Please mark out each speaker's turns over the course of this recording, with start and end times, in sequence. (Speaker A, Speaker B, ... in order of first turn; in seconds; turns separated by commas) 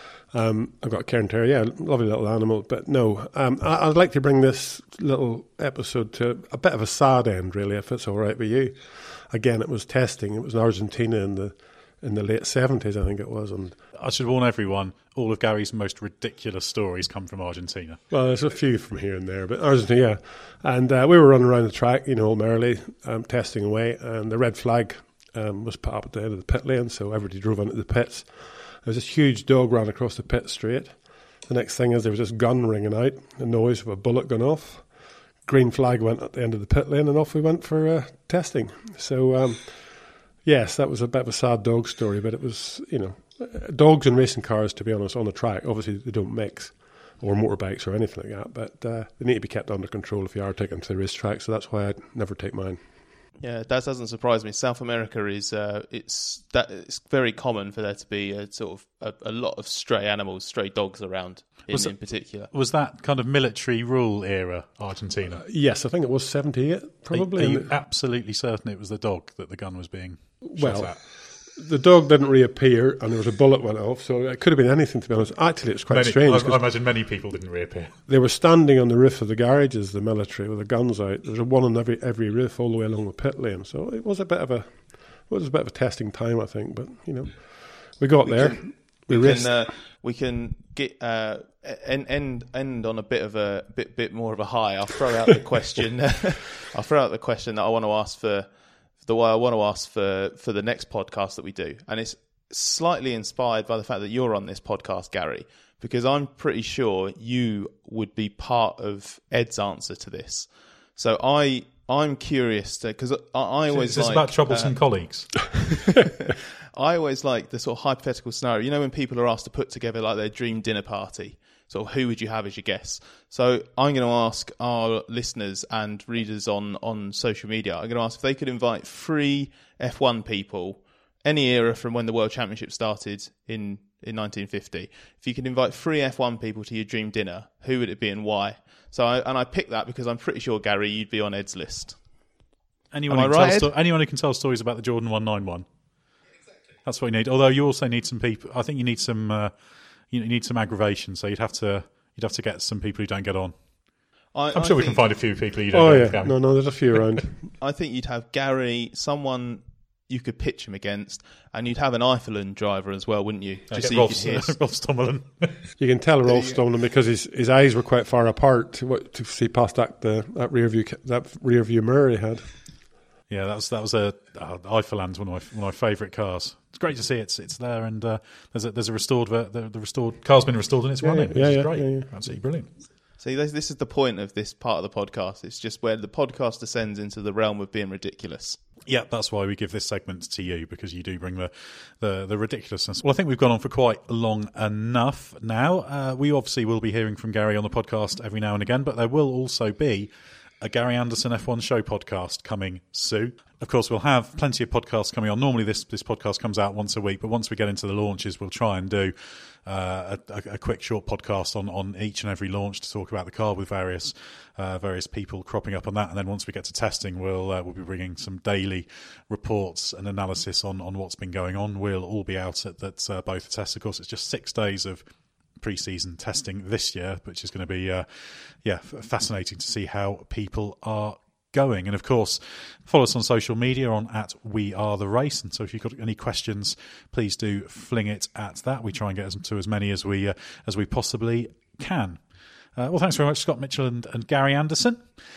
Speaker A: 0.3-13.8, Speaker B: 14.0-18.0, Speaker A: 18.1-28.3, Speaker A: 28.8-30.9, Speaker A: 31.5-34.9, Speaker A: 35.4-39.9, Speaker A: 40.4-52.8, Speaker C: 53.4-62.5, Speaker B: 62.5-65.4, Speaker A: 65.4-67.7, Speaker B: 67.1-71.0, Speaker A: 70.4-76.6, Speaker B: 75.9-78.0, Speaker A: 78.1-89.7, Speaker C: 88.3-98.5, Speaker C: 99.0-114.8, Speaker B: 113.7-115.7, Speaker C: 116.0-142.0, Speaker B: 142.9-145.7, Speaker C: 143.1-143.7, Speaker B: 146.8-149.5, Speaker B: 150.1-153.6, Speaker C: 154.3-155.0, Speaker B: 154.5-156.7, Speaker A: 155.7-157.4, Speaker C: 157.6-164.5, Speaker B: 163.7-165.7, Speaker A: 165.8-172.5, Speaker C: 166.3-166.6, Speaker B: 173.3-182.7, Speaker A: 181.0-182.2, Speaker C: 183.2-188.6, Speaker B: 188.8-225.0, Speaker B: 225.6-242.2, Speaker B: 242.8-245.1